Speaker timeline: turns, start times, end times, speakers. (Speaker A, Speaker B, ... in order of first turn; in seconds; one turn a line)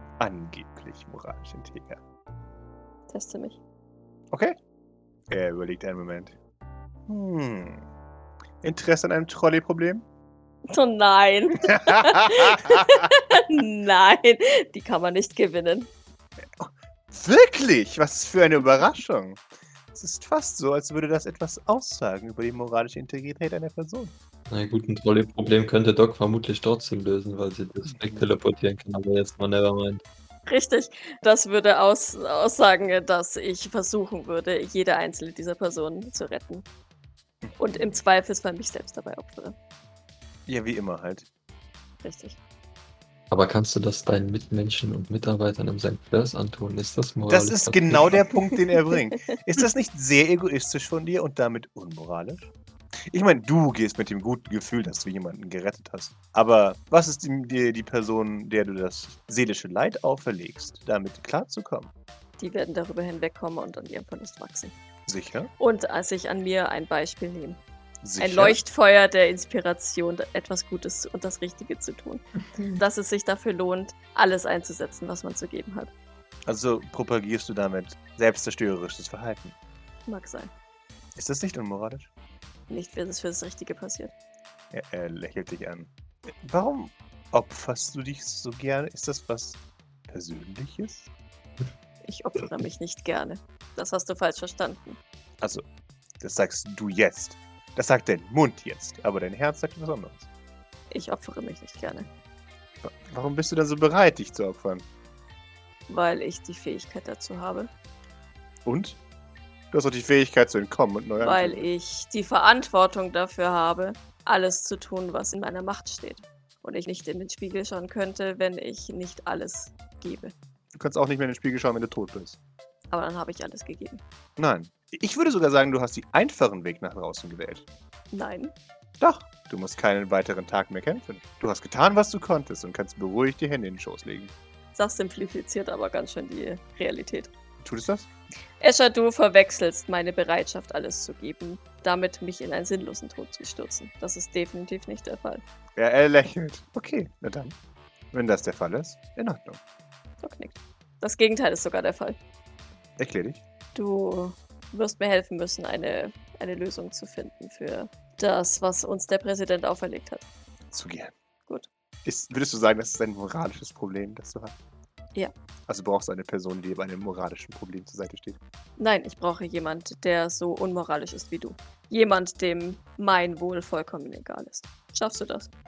Speaker A: 0.2-2.0
Speaker B: 3.1-3.6
Speaker A: 4.3-4.6
Speaker A: 5.3-6.3
Speaker A: 7.1-7.8
Speaker A: 8.6-10.1
Speaker B: 10.7-15.9
Speaker A: 11.6-13.1
Speaker A: 16.6-19.4
Speaker A: 19.9-24.1
Speaker C: 24.5-30.0
Speaker A: 27.9-28.3
Speaker B: 30.5-36.7
Speaker A: 37.4-38.0
Speaker B: 37.6-39.6
Speaker A: 40.5-41.3
Speaker B: 42.0-42.4
Speaker C: 43.3-48.2
Speaker A: 47.3-52.5
Speaker A: 53.1-61.9
Speaker B: 62.4-64.7
Speaker A: 65.1-65.5
Speaker B: 65.6-67.6
Speaker A: 68.0-68.6
Speaker B: 68.2-75.9
Speaker A: 76.5-79.6
Speaker B: 80.1-80.5
Speaker A: 81.2-82.1
Speaker B: 82.7-84.1
Speaker A: 84.7-91.1
Speaker B: 92.0-95.0
Speaker A: 96.2-100.3
Speaker B: 100.9-102.1
Speaker A: 102.8-104.8
Speaker B: 105.9-107.7
Speaker A: 108.7-109.0
Speaker A: 109.7-111.7
Speaker B: 111.2-120.3
Speaker A: 120.8-122.4
Speaker B: 122.9-124.0
Speaker A: 124.4-127.7
Speaker B: 128.1-128.5
Speaker A: 129.0-134.3
Speaker B: 134.8-137.3
Speaker A: 137.6-138.1
Speaker B: 138.6-145.4
Speaker A: 145.8-147.6
Speaker A: 148.1-149.6
Speaker B: 150.2-152.2
Speaker A: 153.0-153.4
Speaker B: 153.8-160.3
Speaker A: 160.7-161.1
Speaker A: 162.1-164.6
Speaker A: 165.7-168.4
Speaker B: 168.8-175.5